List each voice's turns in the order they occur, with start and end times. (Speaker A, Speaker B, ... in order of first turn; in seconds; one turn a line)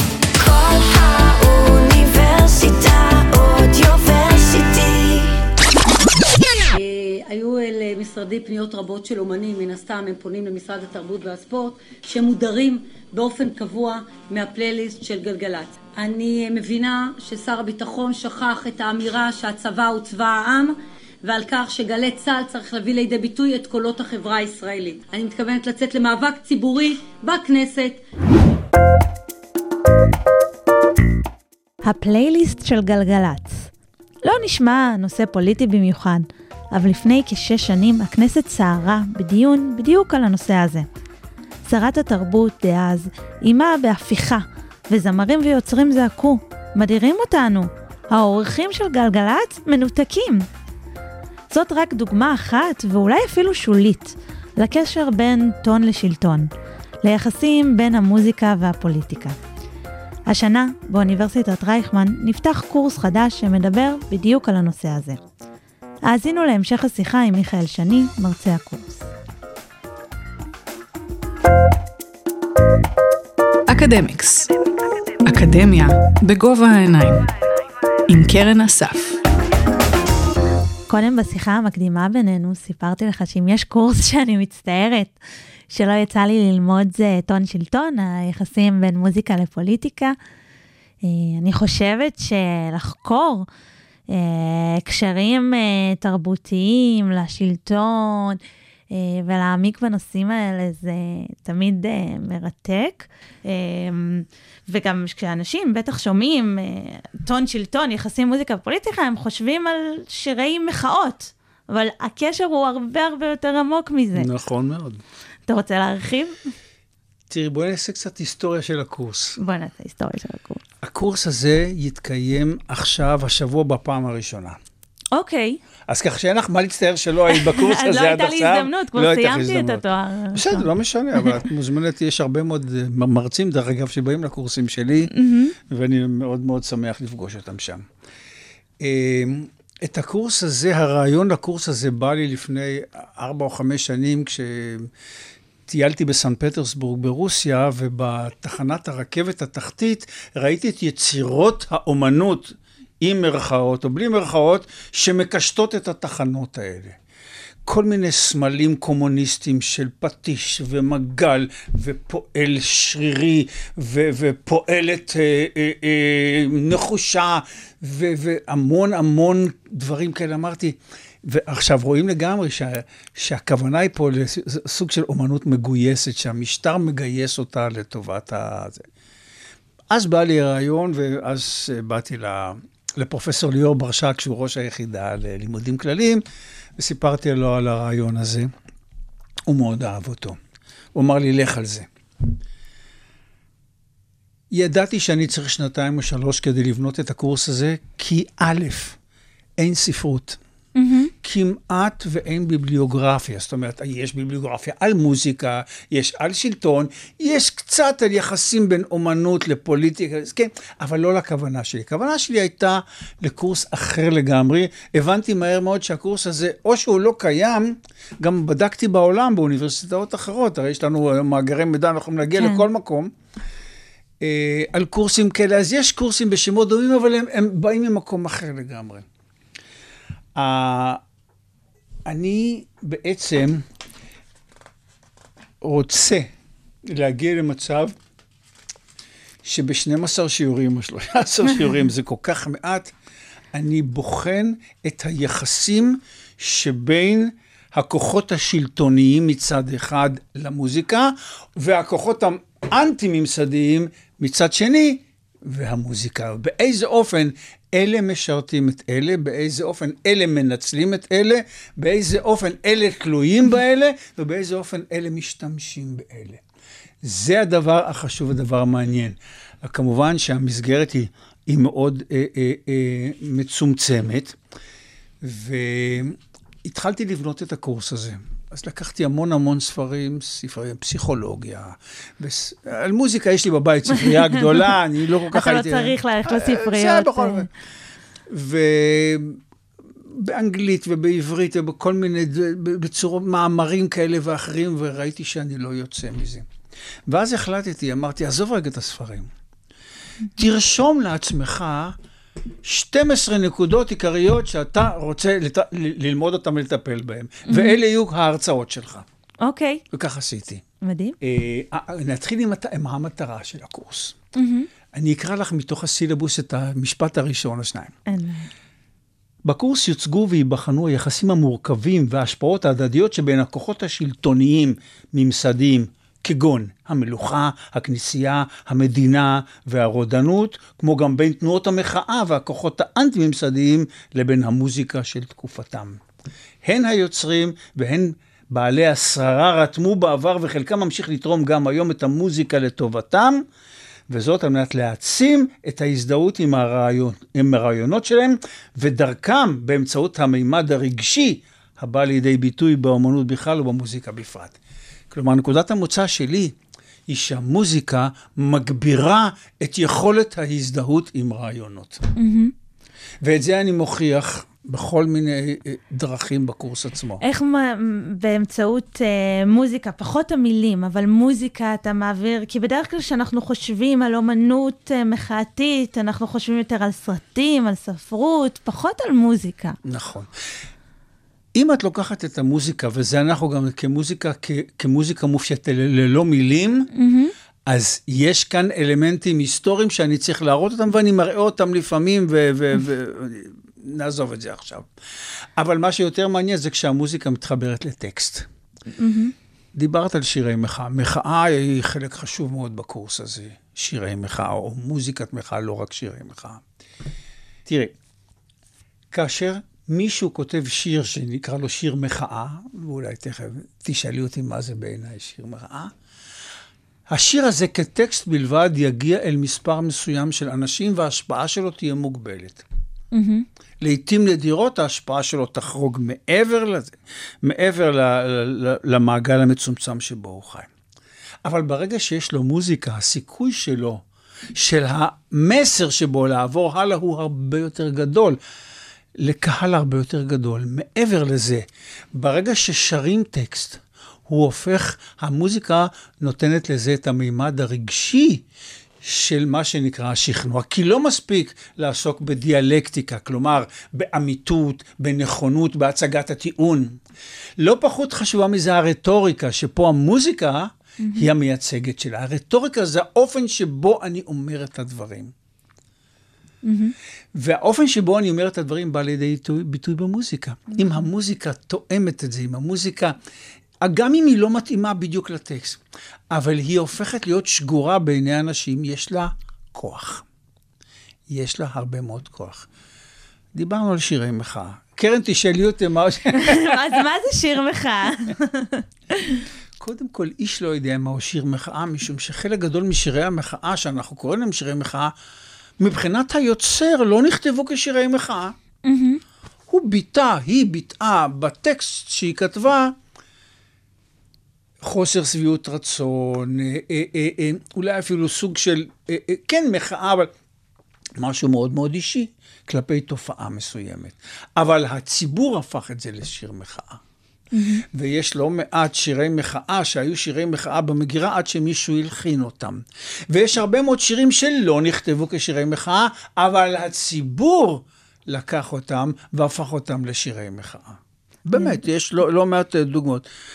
Speaker A: 0.4-5.4
Speaker B: 6.7-28.0
Speaker C: 31.8-33.7
Speaker C: 34.2-40.9
Speaker C: 41.6-50.5
Speaker C: 51.5-56.5
Speaker C: 57.0-59.4
Speaker C: 60.3-65.2
Speaker C: 66.1-69.1
Speaker D: 73.7-74.5
Speaker D: 75.2-77.3
Speaker D: 78.1-79.2
Speaker C: 80.9-85.2
Speaker C: 85.7-90.2
Speaker C: 91.0-93.5
Speaker C: 94.1-98.4
Speaker C: 98.9-114.3
Speaker E: 114.2-115.0
Speaker C: 115.5-116.4
Speaker E: 117.3-119.4
Speaker C: 119.4-120.6
Speaker E: 120.8-124.6
Speaker C: 125.1-125.6
Speaker E: 125.9-137.8
Speaker C: 127.3-131.4
Speaker C: 135.1-135.6
Speaker E: 138.8-144.9
Speaker E: 145.7-157.0
Speaker E: 157.7-178.9
Speaker E: 179.9-186.2
Speaker E: 186.8-188.5
Speaker E: 189.5-190.4
Speaker E: 190.9-191.9
Speaker E: 194.5-199.0
Speaker E: 199.6-200.4
Speaker C: 200.8-201.1
Speaker E: 201.2-223.1
Speaker C: 222.4-222.7
Speaker E: 224.2-229.1
Speaker E: 230.4-231.0
Speaker E: 232.1-233.7
Speaker E: 235.6-236.3
Speaker E: 236.9-237.9
Speaker E: 239.4-242.9
Speaker E: 243.5-266.4
Speaker E: 267.0-274.4
Speaker E: 275.2-287.5
Speaker C: 285.3-287.5
Speaker E: 288.3-289.4
Speaker E: 290.0-296.5
Speaker E: 297.1-299.3
Speaker E: 300.4-302.0
Speaker E: 302.6-309.1
Speaker C: 307.5-307.8
Speaker C: 309.4-309.8
Speaker E: 309.9-310.6
Speaker C: 310.8-311.2
Speaker E: 311.2-314.2
Speaker C: 314.4-314.7
Speaker E: 314.9-317.9
Speaker C: 318.1-318.5
Speaker E: 319.4-336.0
Speaker E: 336.6-343.4
Speaker E: 344.1-354.6
Speaker E: 355.1-356.6
Speaker E: 357.1-362.0
Speaker C: 362.2-362.5
Speaker E: 363.2-367.2
Speaker C: 367.2-379.8
Speaker E: 379.8-380.3
Speaker E: 381.6-386.9
Speaker C: 386.9-387.3
Speaker E: 387.7-394.9
Speaker E: 395.6-398.5
Speaker C: 399.0-399.3
Speaker E: 399.8-406.6
Speaker E: 407.7-407.9
Speaker E: 409.1-415.9
Speaker E: 417.1-422.6
Speaker C: 423.1-423.4
Speaker E: 423.8-430.7
Speaker E: 431.4-434.0
Speaker E: 434.6-438.4
Speaker E: 439.2-448.4
Speaker E: 449.0-457.0
Speaker E: 457.6-465.3
Speaker C: 466.6-466.9
Speaker E: 467.4-473.2
Speaker E: 473.8-475.8
Speaker E: 476.3-480.2
Speaker E: 481.3-482.7
Speaker E: 483.5-486.8
Speaker C: 486.4-489.4
Speaker E: 489.8-495.1
Speaker E: 495.8-498.6
Speaker C: 498.9-499.2
Speaker E: 499.7-502.9
Speaker E: 504.8-510.3
Speaker E: 511.2-517.0
Speaker C: 517.5-517.8
Speaker E: 517.9-533.3